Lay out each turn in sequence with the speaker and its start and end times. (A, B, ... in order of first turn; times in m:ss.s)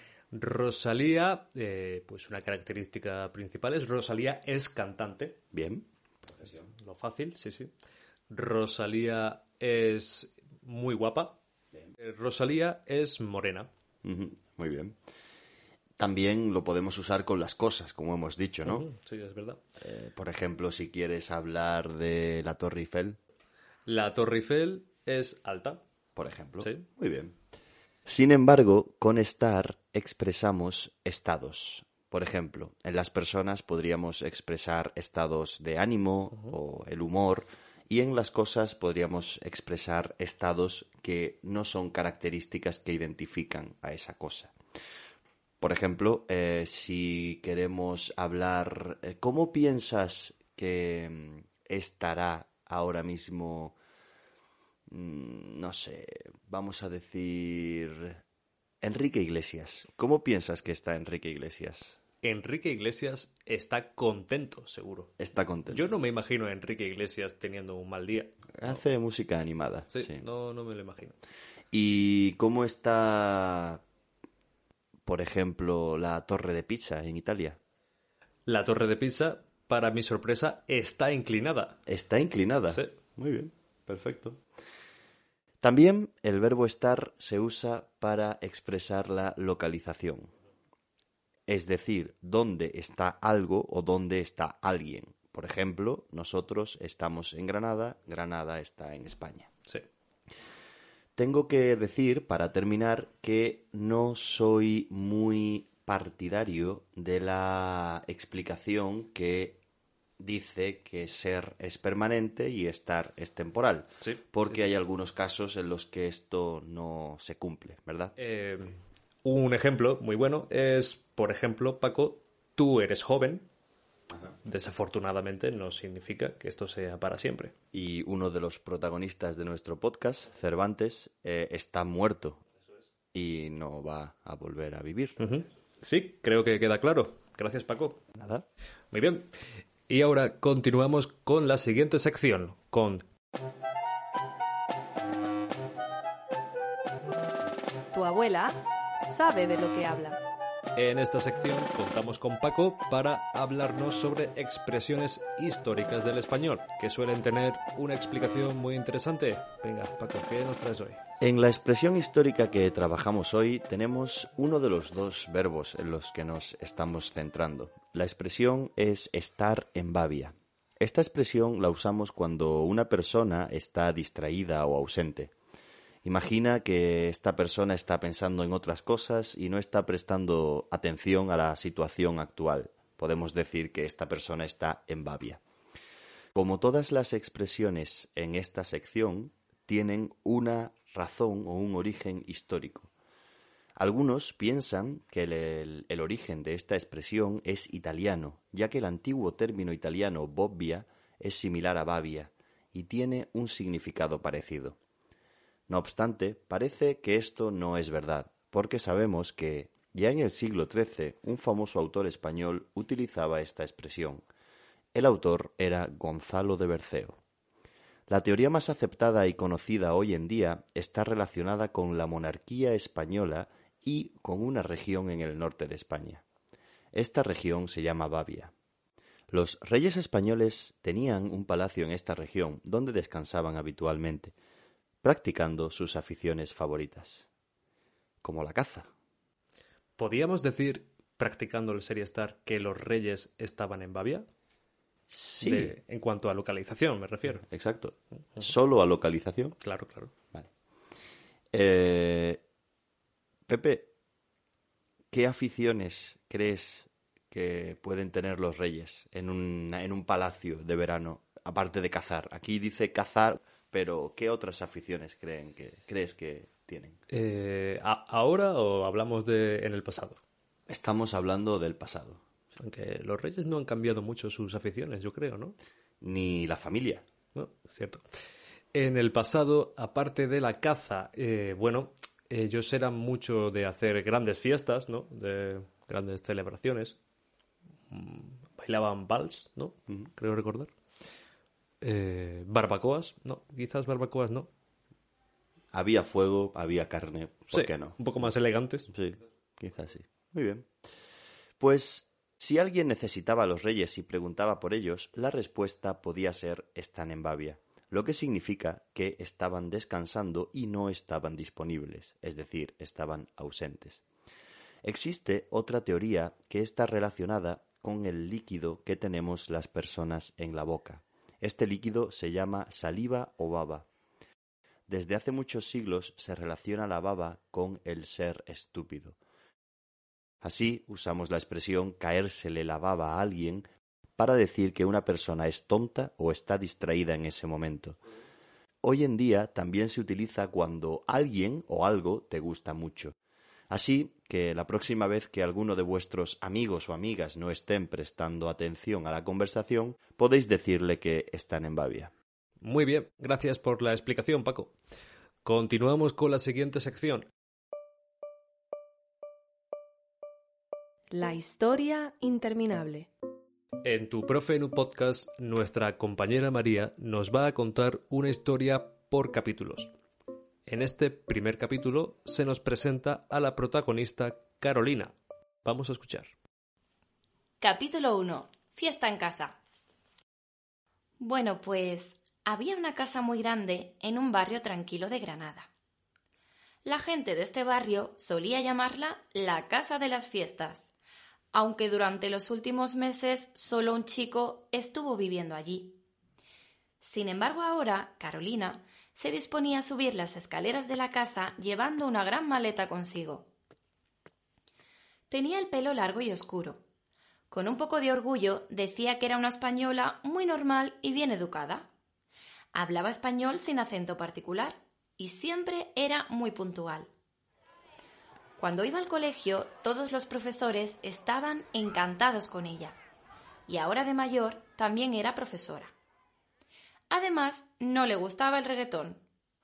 0:00.3-0:05.4 A
0:05.5-0:05.9 B
0:06.7-0:07.7 A
0:08.3-0:11.4 A
0:12.0-0:13.7 A
0:14.0-0:15.0 B
0:16.0-0:18.9 B
0:18.6-0:19.6 A
0:19.8-0:23.2 B
0:23.9-0:25.8 A
0:26.2-0:27.4 B
0:28.1-0:44.5 B
0:45.6-0:53.8 B
0:54.9-0:58.2 B
0:58.8-1:02.0 B
1:02.2-1:05.1 A
1:05.2-1:05.9 B
1:05.7-1:08.7 A
1:08.5-1:10.2 B
1:09.9-1:11.2 A
1:11.7-1:13.8 B
1:15.0-1:17.6 B
1:18.5-1:21.8 A
1:21.9-1:24.4 B
1:25.6-1:30.3 B
1:31.5-1:39.5 B
1:41.2-1:49.6 B
1:50.2-1:58.2 B
1:58.2-2:03.5 A
2:04.4-2:07.5 A
2:07.7-2:12.4 B
2:13.1-2:15.2 B
2:15.2-2:18.0 A
2:18.2-2:18.5 B
2:18.9-2:19.3 A
2:19.9-2:23.0 A
2:27.9-2:30.2 C
2:30.8-2:41.0 A
2:41.2-2:55.3 B
2:56.0-3:05.4 B
3:06.3-3:12.9 B
3:13.8-3:24.8 B
3:25.7-3:34.3 B
3:34.9-3:37.2 B
3:38.1-3:46.2 B
3:46.9-3:48.5 B
3:49.3-3:54.3 B
3:55.0-3:57.3 B
3:58.2-3:58.9 B
4:00.0-4:04.3 A
4:05.1-4:05.7 B
4:05.4-4:07.4 A
4:07.4-4:09.6 B
4:09.6-4:10.1 A
4:11.5-4:12.4 B
4:13.5-4:13.9 B
4:15.1-4:27.0 B
4:27.1-4:30.2 A
4:30.7-4:32.2 B
4:32.6-4:35.6 A
4:36.0-4:37.0 B
4:37.4-4:38.0 A
4:38.7-4:47.0 A
4:47.9-4:50.7 A
4:51.8-4:54.5 A
4:55.7-4:58.0 B
4:57.5-4:58.9 A
4:58.9-5:00.7 B
5:01.6-5:14.0 B
5:14.8-5:23.9 B
5:24.9-5:29.2 B
5:30.4-5:38.0 B
5:38.8-5:43.2 B
5:43.7-5:52.1 B
5:52.6-5:54.8 A
5:55.4-5:57.3 A
6:01.1-6:03.1 C
6:03.8-6:09.9 A
6:10.7-6:16.3 A
6:17.6-6:19.6 D
6:21.2-6:25.7 D
6:26.8-6:30.9 D
6:31.5-6:36.0 D
6:37.0-6:43.5 D
6:45.3-6:46.8 D
6:47.5-6:51.9 D
6:52.7-6:57.1 D
6:58.6-7:03.0 D
7:03.7-7:05.9 D
7:07.1-7:09.2 D